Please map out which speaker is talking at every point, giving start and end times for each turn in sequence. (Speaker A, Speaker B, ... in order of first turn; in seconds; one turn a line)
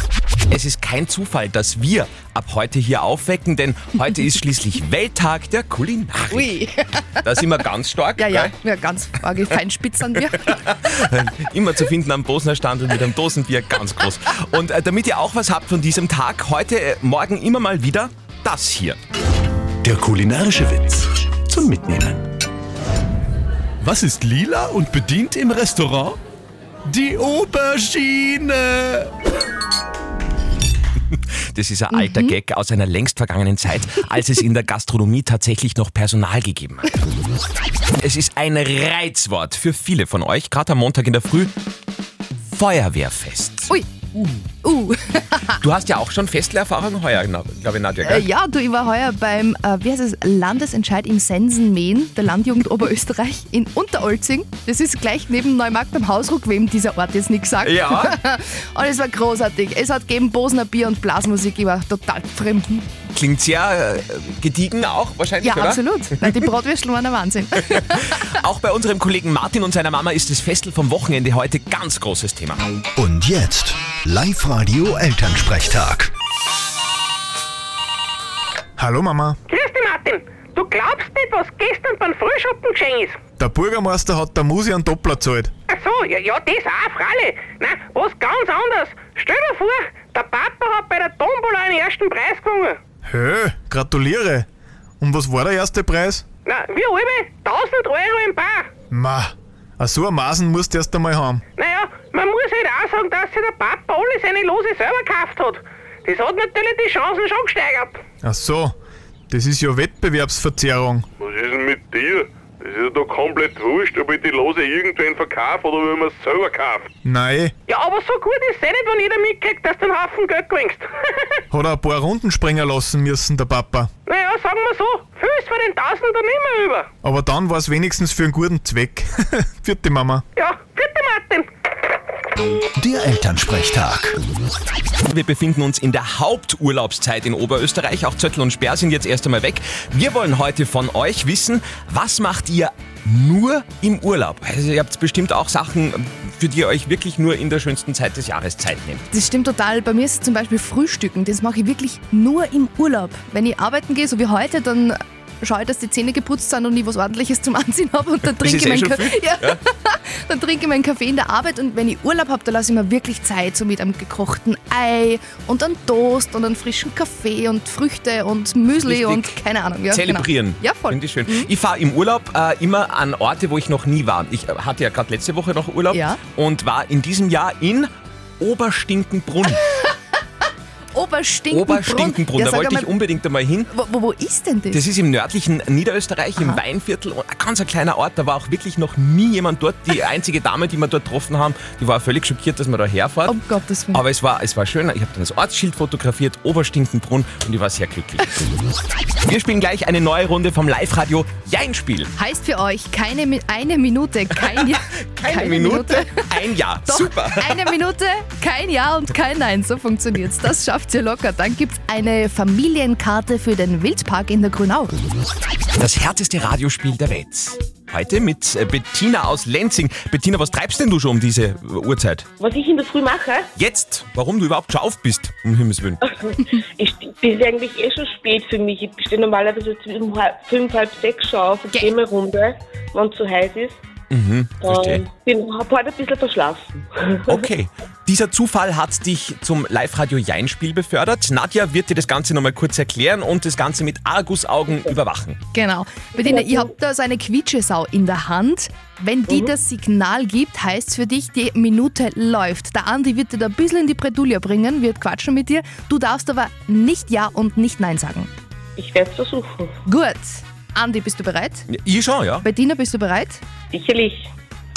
Speaker A: 0.5-6.5
Speaker B: 6.3-7.3
Speaker A: 7.2-8.5
Speaker B: 8.2-10.6
Speaker A: 10.4-19.0
Speaker C: 19.8-22.2
Speaker C: 23.8-26.2
Speaker C: 26.8-29.1
Speaker A: 31.1-37.0
Speaker B: 31.9-32.4
Speaker A: 38.0-41.5
Speaker A: 42.5-43.7
Speaker B: 43.7-45.6
Speaker A: 45.6-48.3
Speaker B: 48.0-62.9
Speaker A: 57.6-58.2
Speaker A: 63.1-65.8
Speaker B: 65.4-68.3
Speaker A: 67.7-72.6
Speaker C: 73.0-76.1
Speaker D: 78.8-79.4
Speaker E: 79.5-83.2
Speaker D: 83.4-85.5
Speaker E: 85.7-92.8
Speaker D: 93.0-94.5
Speaker D: 95.0-96.2
Speaker E: 96.5-98.7
Speaker D: 98.9-101.4
Speaker E: 101.6-108.0
Speaker D: 108.2-108.7
Speaker D: 109.3-111.1
Speaker F: 111.2-116.9
Speaker D: 117.0-117.5
Speaker E: 117.7-121.1
Speaker D: 121.5-123.9
Speaker E: 124.1-126.9
Speaker D: 127.0-130.2
Speaker E: 130.3-131.5
Speaker C: 132.8-134.2
Speaker A: 135.1-149.0
Speaker B: 149.1-171.5
Speaker A: 158.4-159.6
Speaker A: 168.8-169.3
Speaker A: 169.9-179.6
Speaker B: 175.9-176.2
Speaker B: 180.9-182.9
Speaker A: 181.5-183.7
Speaker B: 183.7-184.8
Speaker A: 184.7-193.3
Speaker B: 193.2-194.0
Speaker A: 193.9-198.5
Speaker A: 199.2-202.1
Speaker B: 202.2-214.9
Speaker A: 204.6-207.7
Speaker A: 215.8-222.3
Speaker G: 222.4-223.5
Speaker A: 223.6-226.0
Speaker G: 226.2-233.8
Speaker A: 234.1-235.0
Speaker G: 234.6-237.4
Speaker A: 237.3-245.4
Speaker B: 245.5-258.3
Speaker G: 246.2-246.6
Speaker G: 258.8-259.8
Speaker B: 259.9-261.7
Speaker A: 261.7-262.4
Speaker B: 262.4-263.4
Speaker G: 263.7-264.3